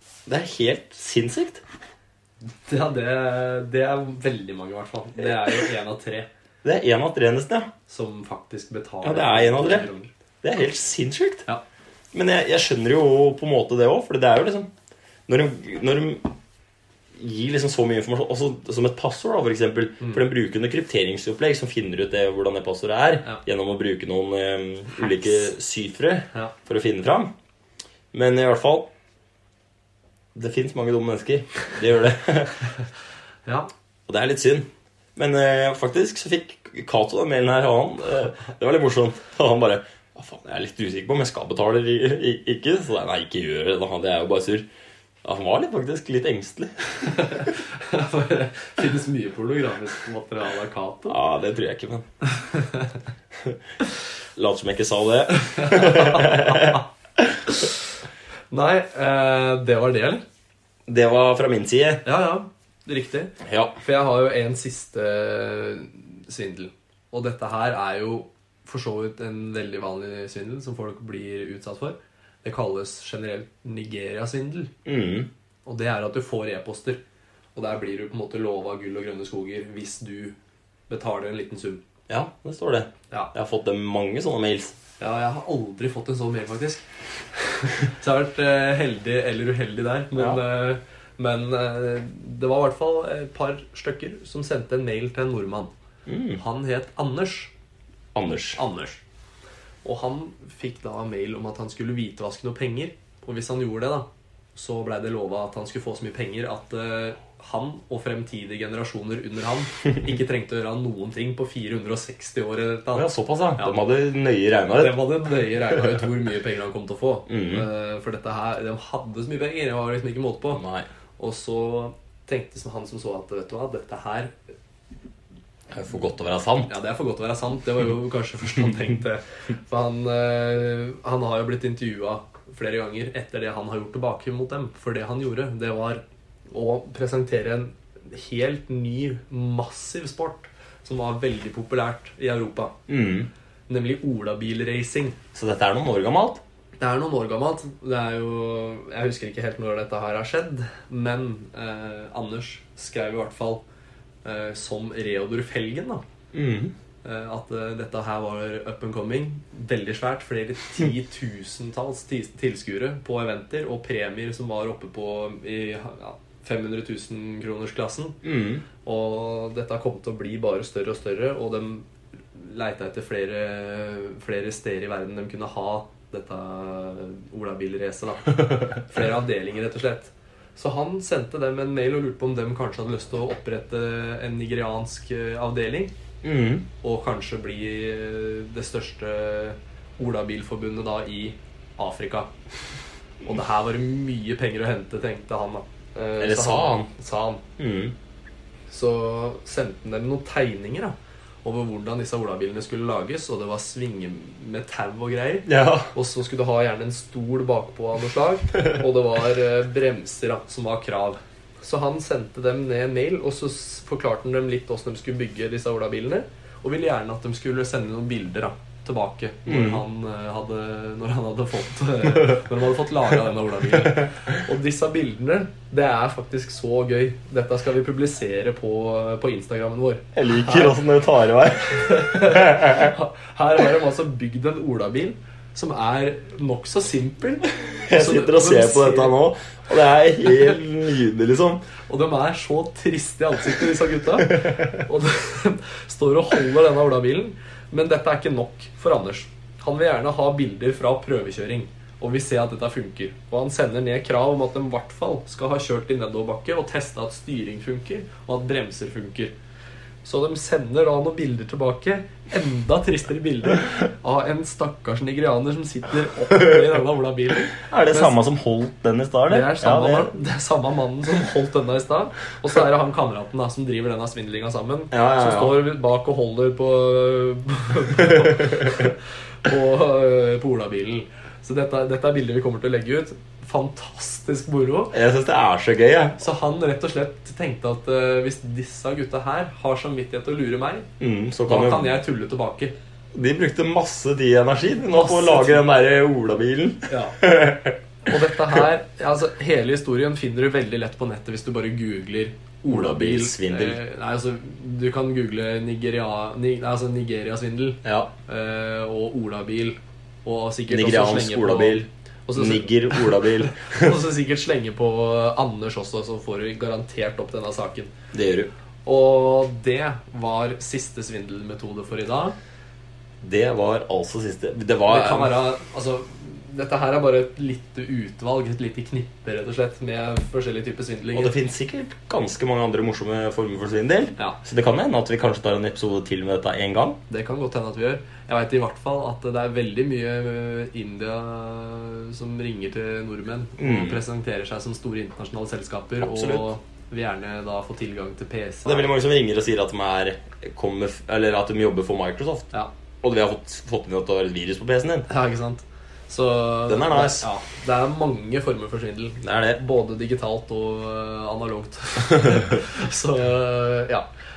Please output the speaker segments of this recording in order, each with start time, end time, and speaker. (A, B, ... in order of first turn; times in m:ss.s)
0:00.3-0:01.6 A
0:02.6-0:06.3 B
0:06.6-0:07.7 A
0:07.9-0:10.1 B
0:09.0-0:09.9 A
0:10.4-0:11.5 A
0:12.1-0:14.7 A
0:15.3-0:16.4 A
0:17.2-0:27.3 A
0:28.1-0:28.9 A
0:30.4-0:32.7 A
0:34.1-0:44.7 A
0:45.2-0:47.4 A
0:47.1-0:51.2 B
0:51.1-0:52.1 A
0:52.4-0:52.9 B
0:54.4-0:57.5 A
0:55.6-0:56.8 B
0:58.5-1:00.2 B
1:00.9-1:02.0 A
1:02.0-1:14.7 B
1:03.4-1:03.8 A
1:14.8-1:15.3 A
1:15.6-1:17.0 B
1:17.6-1:20.4 B
1:20.9-1:21.8 B
1:22.1-1:24.8 A
1:25.0-1:35.7 B
1:30.2-1:30.4 A
1:36.1-1:36.4 A
1:36.4-1:37.5 B
1:38.2-1:38.6 A
1:38.6-1:39.0 B
1:39.8-1:53.8 B
1:52.9-1:55.0 A
1:54.8-2:00.6 B
1:57.3-1:57.7 A
2:00.5-2:00.9 A
2:01.2-2:04.3 B
2:05.7-2:06.7 A
2:06.7-2:22.8 B
2:22.9-2:23.3 A
2:23.7-2:25.2 B
2:25.3-2:26.4 A
2:26.8-2:33.6 B
2:34.2-2:36.0 B
2:36.3-2:36.8 A
2:37.0-2:48.2 B
2:48.2-2:48.6 A
2:48.8-3:06.0 B
3:06.2-3:06.7 A
3:06.8-3:12.3 B
3:13.2-3:17.4 B
3:16.2-3:16.9 A
3:17.6-3:18.0 A
3:18.7-3:50.8 B
3:25.5-3:25.9 A
3:39.5-3:39.8 A
3:50.1-3:52.9 A
3:51.6-3:59.1 B
3:57.8-4:01.6 A
4:01.9-4:19.3 B
4:04.5-4:04.8 A
4:20.0-4:28.2 B
4:27.6-4:30.1 A
4:29.3-4:45.0 B
4:34.9-4:35.6 A
4:38.4-4:38.9 A
4:44.9-4:46.2 A
4:46.2-4:50.9 B
4:51.0-4:52.0 A
4:51.5-4:52.8 B
4:53.1-4:57.8 A
4:54.9-4:55.6 B
4:56.9-4:57.2 B
4:58.0-5:17.9 B
5:02.7-5:03.8 A
5:07.8-5:08.1 A
5:10.7-5:14.0 A
5:18.1-5:18.5 A
5:18.8-5:22.4 B
5:23.2-5:25.4 A
5:24.9-5:31.3 B
5:31.1-5:37.0 A
5:37.1-5:48.9 B
5:43.6-5:44.0 A
5:46.0-5:46.5 A
5:48.6-5:55.1 A
5:55.1-6:04.1 B
5:56.7-5:57.3 A
5:59.2-5:59.6 A